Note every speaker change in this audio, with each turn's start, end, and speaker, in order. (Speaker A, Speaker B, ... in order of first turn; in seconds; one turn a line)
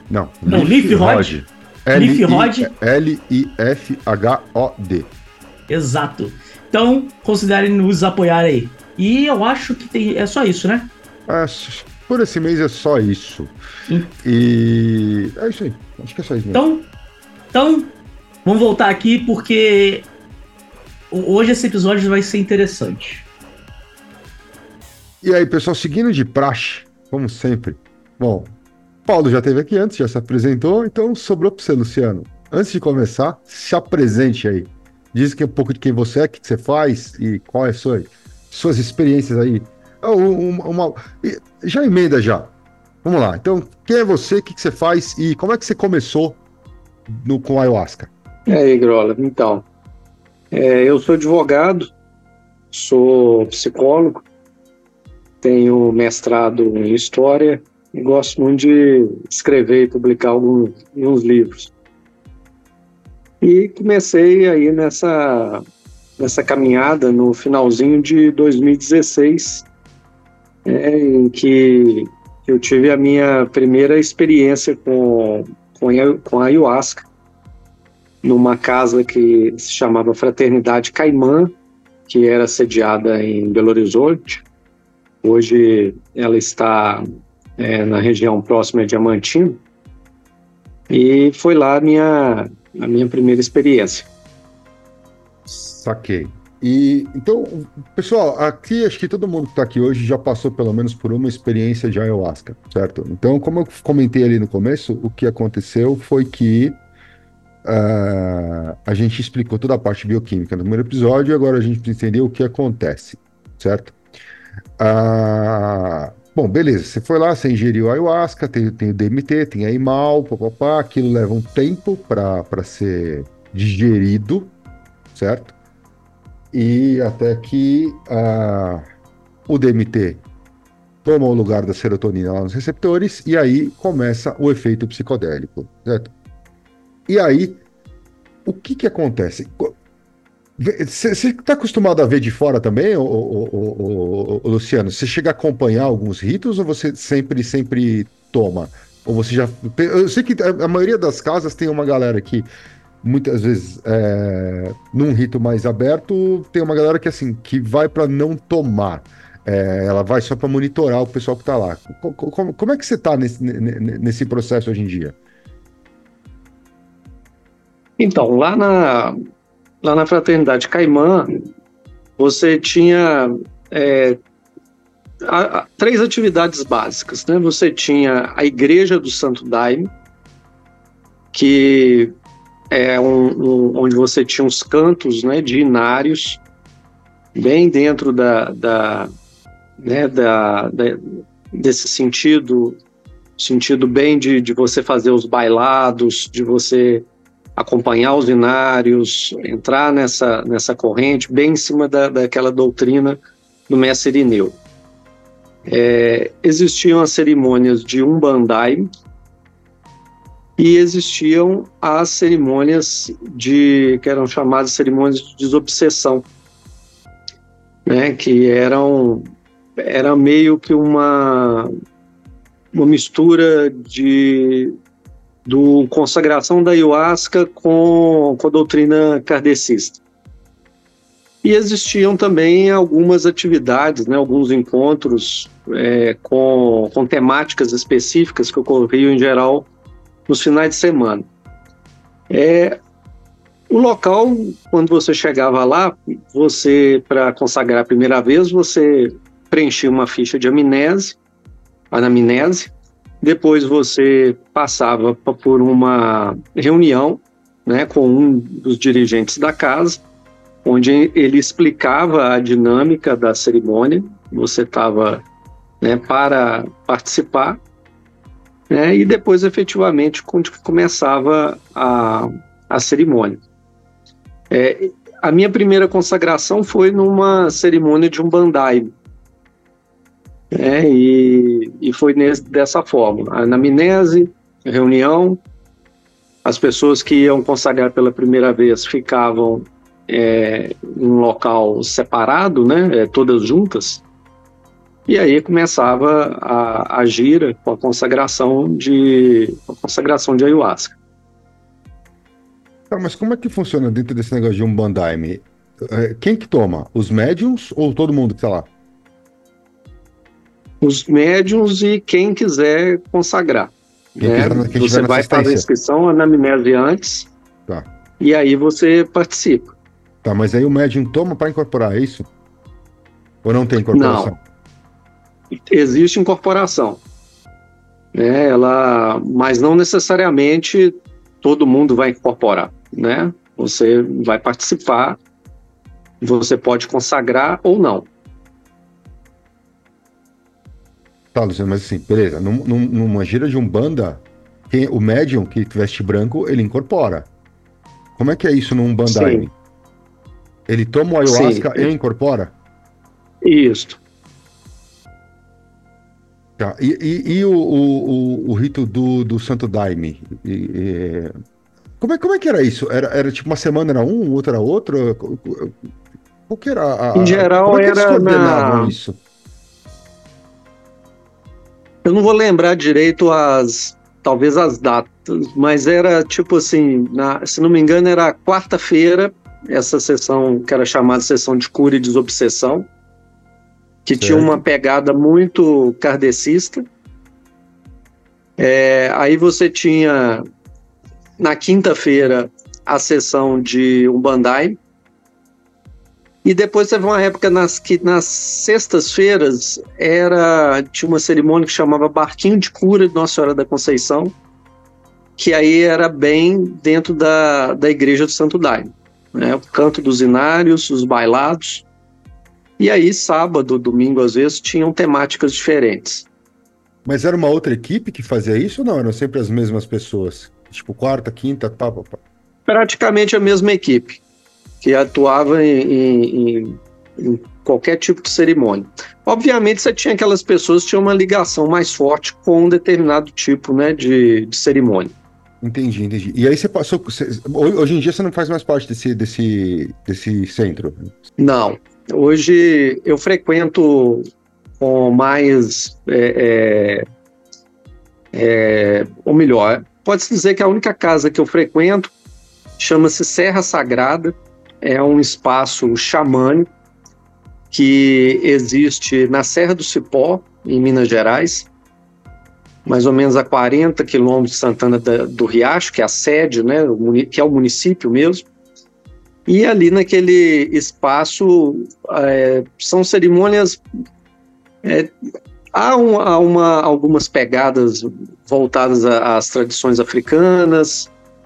Speaker A: 0.1-5.1
Speaker B: 0.5-1.4
Speaker B: 1.9-2.7
Speaker B: 5.7-10.9
Speaker A: 11.3-13.5
Speaker A: 14.2-16.6
Speaker B: 16.5-16.9
Speaker B: 17.5-17.9
Speaker B: 18.4-20.1
Speaker B: 21.1-23.3
Speaker A: 25.2-28.5
Speaker A: 29.1-42.5
Speaker A: 43.0-46.4
Speaker A: 47.1-48.1
Speaker C: 48.5-49.6
Speaker C: 50.5-51.9
Speaker C: 52.7-54.2
Speaker C: 55.4-61.7
Speaker C: 63.4-65.6
Speaker C: 66.2-69.7
Speaker C: 70.7-77.0
Speaker C: 78.2-81.5
Speaker C: 82.1-84.4
Speaker C: 85.2-87.0
Speaker C: 87.6-89.6
Speaker C: 90.9-94.1
Speaker A: 95.5-106.8
Speaker A: 107.7-114.0
Speaker A: 114.8-124.5
Speaker A: 125.1-125.5
Speaker A: 126.5-128.8
Speaker A: 129.5-130.2
Speaker A: 131.0-136.1
Speaker A: 137.1-137.6
Speaker A: 138.4-139.8
Speaker A: 140.6-152.5
Speaker A: 153.0-165.2
Speaker C: 168.0-169.2
Speaker C: 169.8-171.3
Speaker C: 172.2-174.2
Speaker C: 175.2-179.9
Speaker C: 181.3-182.1
Speaker C: 182.7-186.4
Speaker C: 187.3-189.1
Speaker C: 189.8-192.8
Speaker C: 193.4-197.1
Speaker C: 197.6-204.6
Speaker C: 205.7-208.9
Speaker C: 210.6-216.2
Speaker C: 217.9-219.3
Speaker C: 219.8-221.7
Speaker C: 222.7-224.8
Speaker C: 225.5-230.0
Speaker C: 231.4-239.7
Speaker C: 240.3-241.3
Speaker C: 242.3-242.8
Speaker C: 243.7-251.2
Speaker C: 251.9-260.0
Speaker C: 260.6-265.2
Speaker C: 265.8-267.6
Speaker C: 268.7-273.4
Speaker C: 274.5-278.9
Speaker C: 280.5-285.4
Speaker C: 286.4-294.0
Speaker C: 295.1-300.9
Speaker A: 302.9-308.7
Speaker C: 310.8-317.3
Speaker A: 314.2-315.7
Speaker C: 318.2-319.7
Speaker A: 320.2-322.3
Speaker A: 323.4-324.4
Speaker C: 323.9-324.3
Speaker C: 325.7-327.0
Speaker C: 328.1-335.2
Speaker C: 336.2-338.1
Speaker A: 341.3-347.3
Speaker A: 348.2-349.5
Speaker C: 349.1-349.5
Speaker A: 350.7-352.5
Speaker C: 351.2-351.9
Speaker C: 353.4-354.0
Speaker A: 356.6-361.3
Speaker A: 362.0-365.9
Speaker A: 366.5-369.2
Speaker C: 367.1-368.9
Speaker C: 372.1-382.9
Speaker C: 384.1-386.9
Speaker A: 384.2-384.6
Speaker C: 388.6-390.4
Speaker C: 391.4-394.8
Speaker C: 396.4-404.4
Speaker C: 405.4-411.9
Speaker C: 412.8-416.3
Speaker A: 417.1-422.2
Speaker C: 422.7-424.2
Speaker C: 424.8-435.1
Speaker A: 435.6-441.2
Speaker C: 441.4-444.3
Speaker C: 444.8-447.0
Speaker C: 448.3-452.1
Speaker C: 452.8-456.7
Speaker C: 457.7-461.7
Speaker C: 462.9-468.4
Speaker C: 469.5-473.8
Speaker C: 474.8-475.1
Speaker C: 475.7-481.1